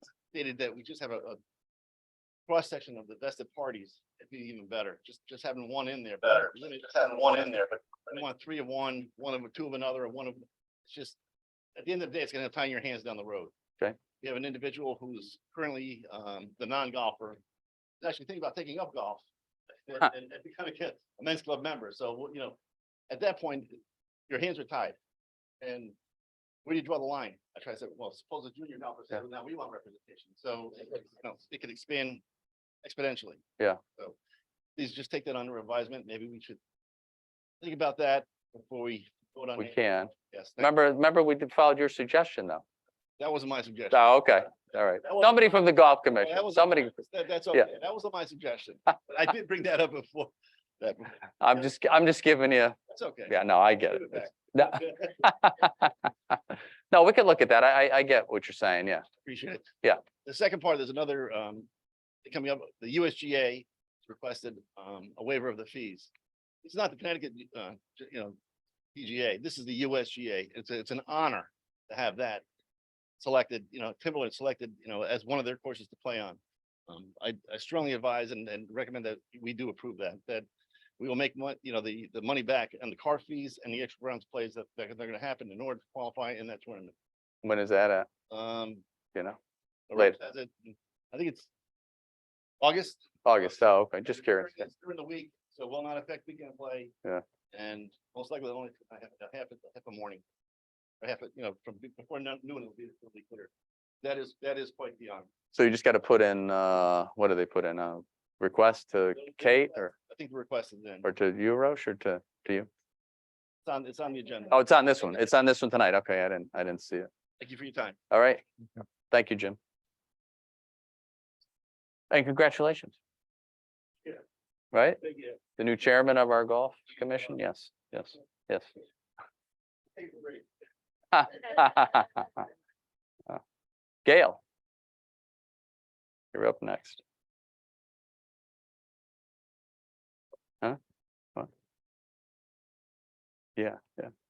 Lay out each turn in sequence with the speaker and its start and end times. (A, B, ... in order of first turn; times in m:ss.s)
0:00.3-0:01.4 A
0:02.5-0:11.2 A
0:11.8-0:13.5 A
0:14.2-0:17.4 A
0:18.0-0:19.2 A
0:19.8-0:22.6 A
0:23.1-0:25.0 A
0:25.6-0:25.9 A
0:26.6-0:32.2 A
0:32.8-0:33.4 A
0:34.8-0:36.6 A
0:37.6-0:39.8 A
0:39.6-0:42.6 B
0:40.3-0:40.7 A
0:43.2-0:51.7 A
0:43.9-0:47.0 B
0:51.4-0:52.8 B
0:52.9-0:55.1 A
0:53.3-0:56.4 B
0:56.9-0:59.0 B
0:59.2-1:01.7 A
1:02.2-1:06.1 A
1:06.6-1:08.4 A
1:08.9-1:12.4 A
1:13.2-1:20.5 A
1:21.0-1:26.9 A
1:27.4-1:28.1 B
1:28.3-1:28.8 A
1:29.9-1:31.5 A
1:32.6-1:36.9 A
1:33.2-1:34.7 B
1:37.5-1:40.2 A
1:41.0-1:43.5 A
1:44.0-1:45.3 A
1:45.5-1:49.9 B
1:49.2-1:51.1 A
1:51.0-1:52.7 B
1:53.6-1:54.5 A
1:54.5-1:57.1 B
1:57.4-1:58.0 A
1:58.1-1:58.4 B
1:59.1-1:59.6 B
2:02.1-2:02.9 B
2:04.7-2:05.0 B
2:05.0-2:05.4 A
2:05.6-2:08.7 B
2:10.0-2:10.4 A
2:11.1-2:12.2 B
2:14.0-2:14.4 B
2:16.3-2:17.0 B
2:23.6-2:24.1 B